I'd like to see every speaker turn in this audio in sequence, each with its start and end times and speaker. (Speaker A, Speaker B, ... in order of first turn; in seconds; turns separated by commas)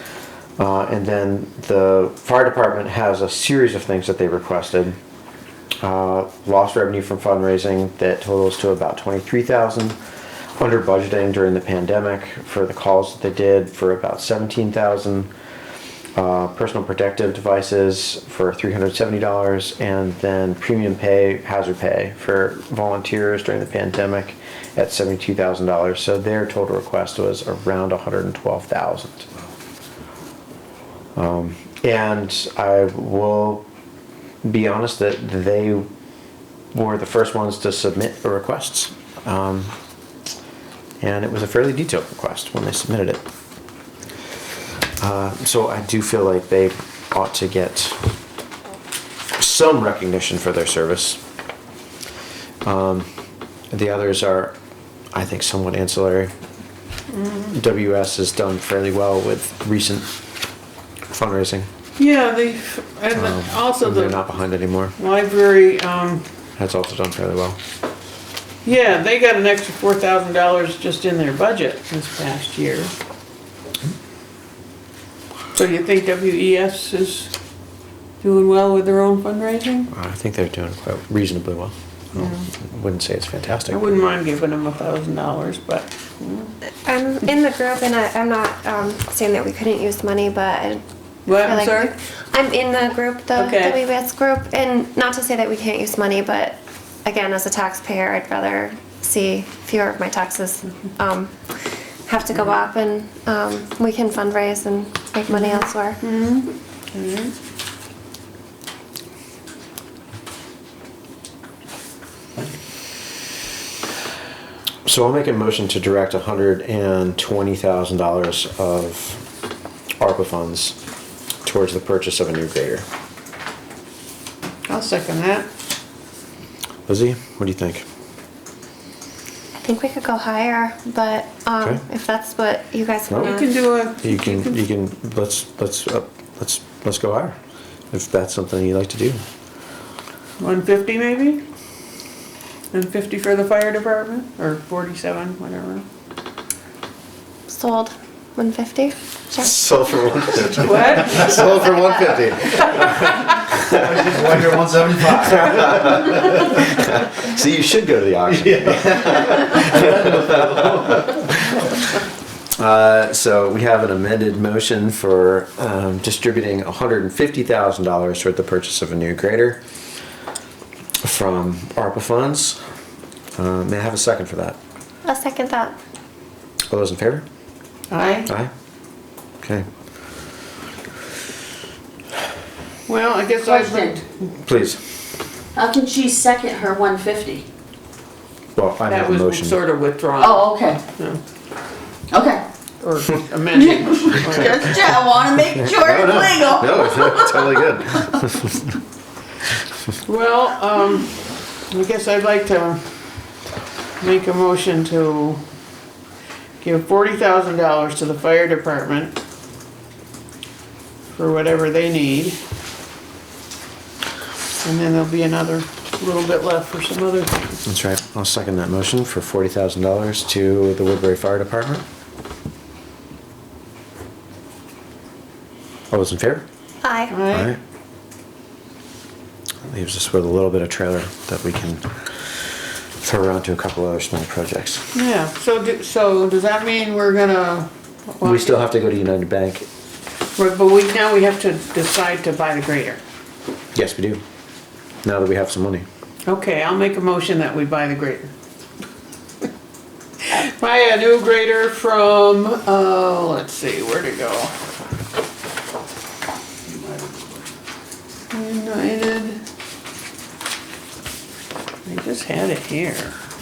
Speaker A: 0.6-5.0, Speaker A: 5.8-10.0, Speaker A: 10.6-15.3, Speaker A: 16.1-29.3, Speaker A: 31.2-33.6, Speaker A: 34.4-35.9, Speaker A: 36.7-39.8, Speaker A: 41.0-43.2, Speaker A: 45.0-48.0, Speaker A: 49.4-51.2, Speaker A: 52.6-53.1, Speaker A: 53.7-54.5, Speaker A: 55.1-56.3, Speaker A: 57.4-60.1, Speaker A: 61.1-61.7, Speaker B: 62.0-64.2, Speaker A: 63.1-65.0, Speaker B: 65.0-66.2, Speaker A: 66.6-67.6, Speaker B: 68.7-72.9, Speaker B: 75.5-77.3, Speaker B: 78.2-79.9, Speaker A: 79.9-83.9, Speaker B: 82.1-82.5, Speaker B: 83.7-86.5, Speaker C: 86.9-106.0, Speaker B: 91.3-91.9, Speaker B: 93.4-93.8, Speaker B: 105.3-107.3, Speaker A: 114.8-119.2, Speaker A: 120.0-120.8, Speaker A: 121.4-122.8, Speaker B: 124.7-125.5, Speaker A: 126.9-127.8, Speaker C: 129.6-133.5, Speaker A: 133.1-133.4, Speaker B: 133.2-134.6, Speaker A: 134.0-137.4, Speaker A: 137.9-139.2, Speaker B: 140.4-141.4, Speaker B: 142.7-145.8, Speaker C: 147.5-149.5, Speaker A: 149.4-154.5, Speaker B: 150.6-151.4, Speaker D: 153.7-155.9, Speaker A: 155.1-161.7, Speaker D: 159.6-159.9, Speaker A: 162.6-169.6, Speaker A: 171.0-172.6, Speaker A: 173.4-174.6, Speaker C: 175.1-175.8, Speaker A: 176.7-177.2, Speaker B: 177.9-178.3, Speaker A: 178.2-178.5, Speaker A: 179.4-179.7, Speaker B: 182.9-184.1, Speaker E: 183.4-184.0, Speaker A: 184.4-184.8, Speaker E: 185.6-187.5, Speaker A: 188.6-189.6, Speaker B: 188.9-191.2, Speaker E: 190.2-190.8, Speaker E: 192.1-192.5, Speaker B: 192.8-194.9, Speaker E: 193.5-198.2, Speaker A: 195.6-198.6, Speaker B: 200.0-202.8, Speaker B: 204.0-205.4, Speaker B: 206.6-209.1, Speaker B: 211.1-212.4, Speaker B: 214.6-217.6, Speaker A: 217.7-221.8, Speaker A: 225.9-226.4, Speaker C: 226.8-227.2, Speaker B: 227.1-227.5, Speaker A: 227.3-227.6, Speaker A: 229.7-232.3, Speaker A: 233.0-234.8, Speaker B: 234.9-238.6, Speaker A: 238.2-239.7, Speaker B: 240.4-243.0, Speaker A: 243.7-244.2, Speaker A: 245.0-245.8, Speaker B: 246.3-248.3, Speaker B: 250.2-254.6, Speaker B: 256.7-257.3, Speaker B: 258.3-259.4, Speaker B: 261.9-263.2